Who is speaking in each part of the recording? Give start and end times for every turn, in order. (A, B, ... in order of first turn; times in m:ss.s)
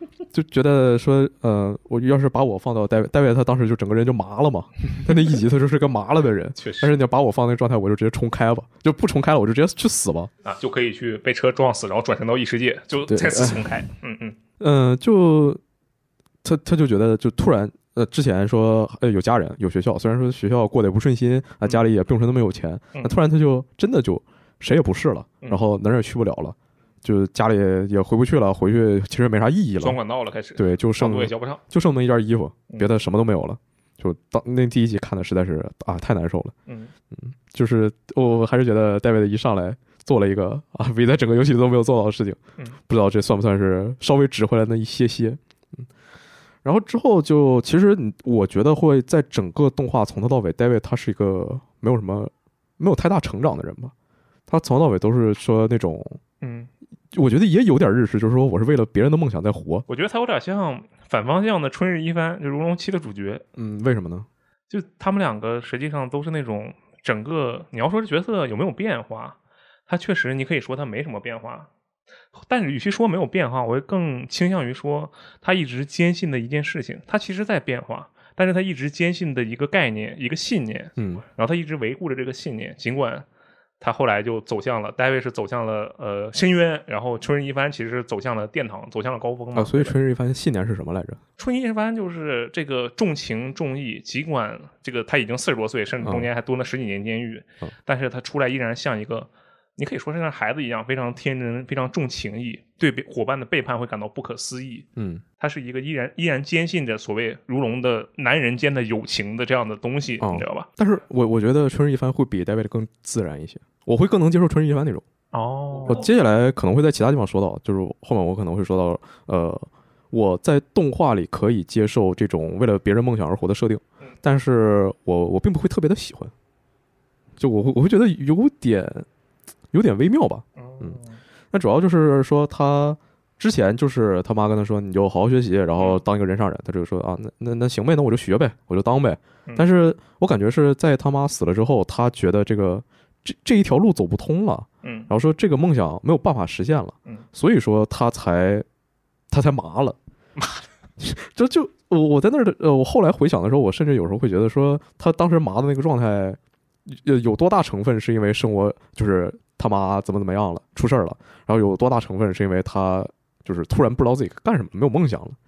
0:00.3-0:10.3 A
0:06.6-0:06.9 B
0:10.4-0:14.4 B
0:13.1-0:13.6 A
0:14.6-0:15.6 A
0:16.4-0:30.0 A
0:29.8-0:31.6 B
0:30.6-0:36.5 A
0:36.7-0:36.9 B
0:37.1-0:45.8 A
0:46.6-0:53.9 A
0:54.5-0:56.2 A
0:56.4-0:56.7 B
0:57.1-0:59.8 A
0:59.9-1:03.4 B
1:03.6-1:04.3 A
1:04.7-1:09.4 B
1:09.9-1:11.7 B
1:12.3-1:23.2 B
1:21.0-1:21.2 A
1:23.8-1:30.0 B
1:29.5-1:31.2 A
1:31.4-1:44.8 B
1:45.0-1:45.2 A
1:45.4-1:50.7 B
1:50.2-1:55.0 A
1:55.3-1:56.0 B
1:55.8-2:06.3 A
2:07.4-2:09.0 A
2:09.7-2:11.0 A
2:10.6-2:11.2 B
2:11.5-2:28.6 A
2:24.8-2:25.1 B
2:29.3-2:30.0 A
2:31.0-2:45.4 A